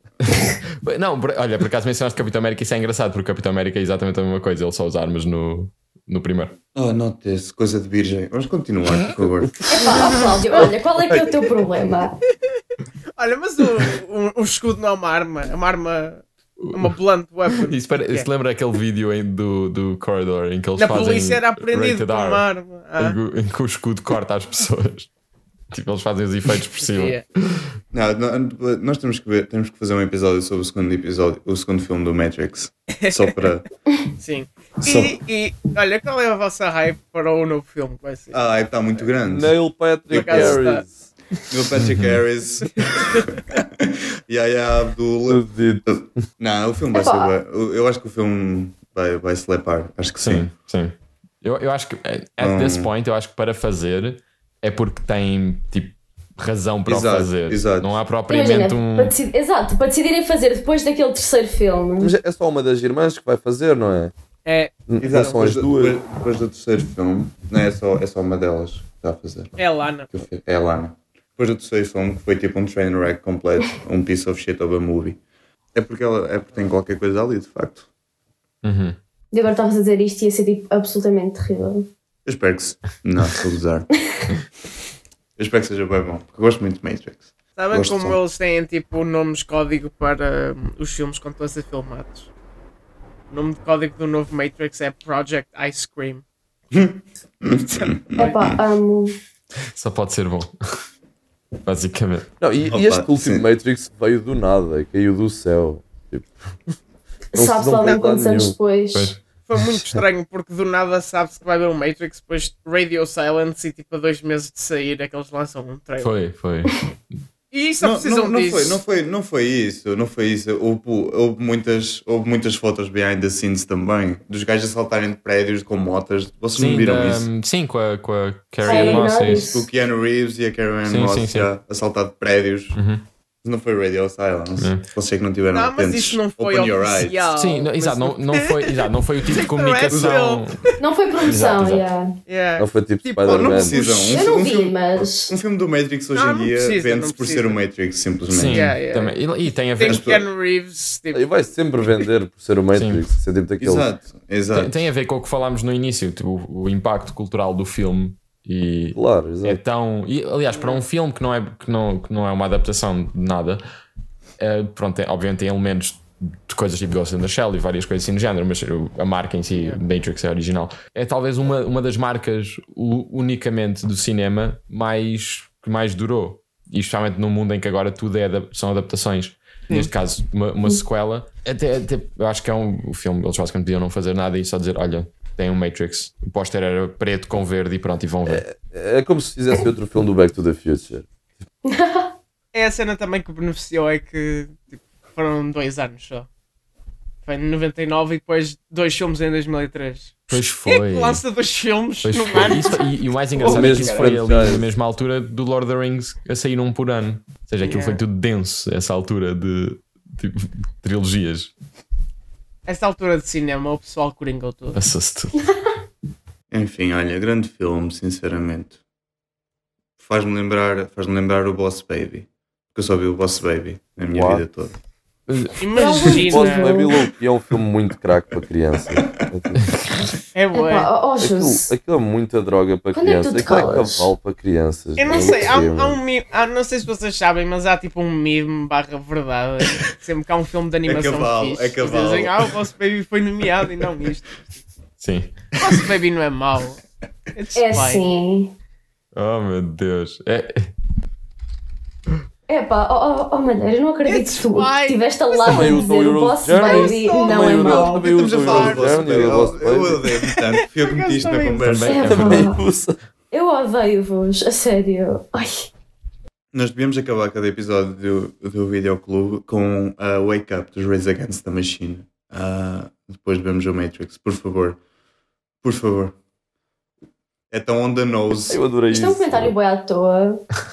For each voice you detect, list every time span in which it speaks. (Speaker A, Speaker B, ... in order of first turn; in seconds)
Speaker A: 0.2-6.5, 16.6-16.9, 17.5-22.4, 23.0-25.1, 25.7-27.7, 50.2-59.1, 78.6-79.0, 99.7-100.5, 101.7-102.3, 108.9-109.2, 116.0-116.9, 126.5-129.5, 130.8-131.5, 132.7-133.0, 134.6-134.9, 137.3-140.6, 141.3-141.9, 148.3-150.1, 152.8-153.0, 154.6-163.6, 164.4-188.4, 200.3-201.2, 202.0-211.5, 214.7-215.4, 225.3-225.5, 245.0-245.3, 249.2-250.7, 261.6-262.5
Speaker B: 6.8-10.2, 11.1-11.4, 27.9-33.7, 34.8-35.2, 38.3-40.7, 41.5-50.5, 52.4-52.9, 56.9-58.0, 65.0-69.6, 70.1-75.2, 75.7-77.9, 82.3-84.0, 85.4-88.2, 96.7-98.6, 102.7-103.5, 117.8-127.3, 128.7-132.8, 133.4-137.2, 139.9-140.2, 143.3-148.8, 149.8-150.3, 153.6-154.7, 216.5-218.8, 220.0-224.8, 228.9-229.3, 240.9-242.6, 258.0-262.2, 266.5-274.8, 275.6-276.1, 277.5-278.6
Speaker C: 9.7-12.2, 46.9-47.3, 58.3-62.1, 79.3-81.9, 98.2-99.2, 107.3-109.2, 128.7-129.7, 140.8-142.2, 143.9-145.4, 191.7-192.1, 225.7-227.0, 230.5-231.7, 232.9-234.1, 247.6-248.5, 252.5-258.1, 261.9-262.6, 263.3-265.7, 278.9-280.5
Speaker D: 13.2-18.3, 20.8-23.2, 26.8-27.2, 33.0-33.5, 34.2-39.1, 40.1-40.9, 64.5-64.7, 69.6-70.1, 87.6-92.3, 93.3-96.2, 97.6-98.3, 107.8-108.1, 109.5-116.1, 117.5-118.8, 135.5-140.5, 142.3-144.2, 146.1-147.6, 148.5-149.2, 149.8-151.3, 160.5-160.8, 192.5-196.3, 197.2-204.2, 207.6-208.0, 212.7-214.8, 225.6-226.7, 230.3-230.9, 235.0-244.6, 245.6-246.8, 247.3-248.1, 254.1-255.9, 256.5-258.8, 260.2-261.7
Speaker E: 39.2-41.1, 41.7-42.2, 45.3-46.2, 62.0-64.1, 64.9-66.0, 102.4-106.7, 107.3-108.6, 142.6-143.8, 151.1-153.9, 158.9-159.6, 188.3-191.1, 203.4-204.7, 224.1-224.5, 226.0-229.7, 231.2-236.0, 255.4-260.0, 262.0-263.0, 278.5-279.5